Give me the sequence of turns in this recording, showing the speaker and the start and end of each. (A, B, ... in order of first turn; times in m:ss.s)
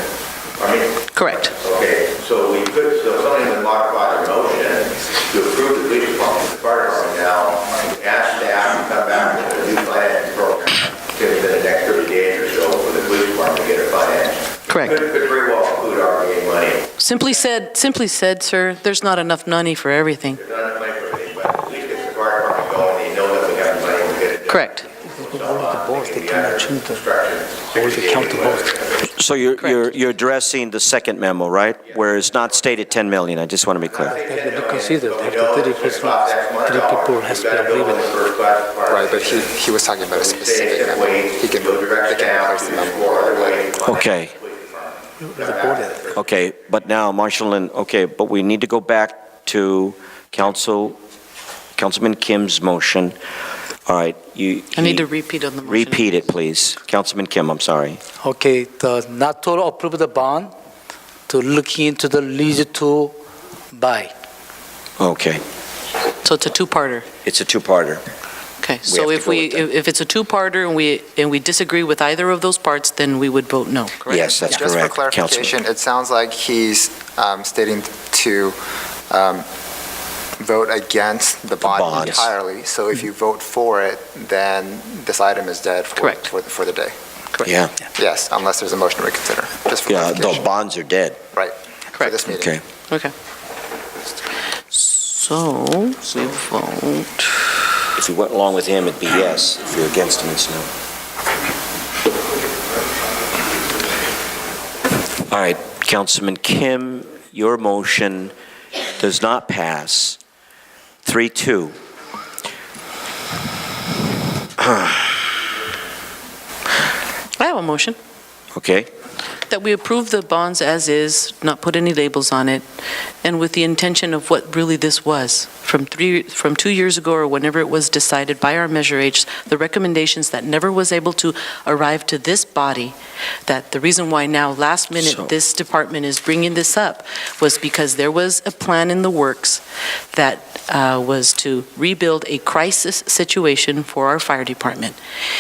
0:00.6-0:17.3 A
0:01.1-0:01.5 B
0:14.7-0:15.0 B
0:17.0-0:20.4 B
0:20.4-0:29.1 A
0:24.5-0:24.9 B
0:25.2-0:27.0 C
0:27.7-0:28.7 C
0:29.2-0:34.2 D
0:29.6-0:29.9 B
0:31.8-0:32.7 A
0:33.8-0:46.5 A
0:34.1-0:38.1 C
0:38.9-0:43.7 E
0:43.8-0:44.3 D
0:45.4-0:46.0 C
0:46.1-0:51.0 D
0:51.8-0:53.2 D
0:53.9-0:55.1 D
0:54.7-0:56.1 B
0:55.6-0:58.0 D
0:58.2-1:00.5 C
1:01.3-1:03.1 C
1:03.7-1:04.1 C
1:05.0-1:05.4 D
1:06.2-1:07.1 B
1:07.2-1:08.0 D
1:08.6-1:14.4 B
1:08.9-1:09.7 D
1:14.1-1:15.6 D
1:14.1-1:18.6 E
1:19.1-1:19.5 E
1:20.4-1:26.9 E
1:21.6-1:22.3 D
1:26.0-1:26.3 B
1:27.4-1:27.7 D
1:28.0-1:30.5 E
1:29.9-1:31.2 D
1:31.3-1:32.6 E
1:32.3-1:32.6 D
1:34.7-1:37.6 B
1:38.0-1:40.7 D
1:45.3-1:48.3 D
1:49.0-1:50.2 D
1:51.0-1:51.8 D
1:54.6-1:55.2 D
1:57.4-1:58.0 B
1:58.5-1:58.9 D
1:59.5-2:02.6 B
2:03.2-2:13.0 B
2:13.5-2:19.6 B
2:15.0-2:15.3 D
2:20.1-2:25.0 B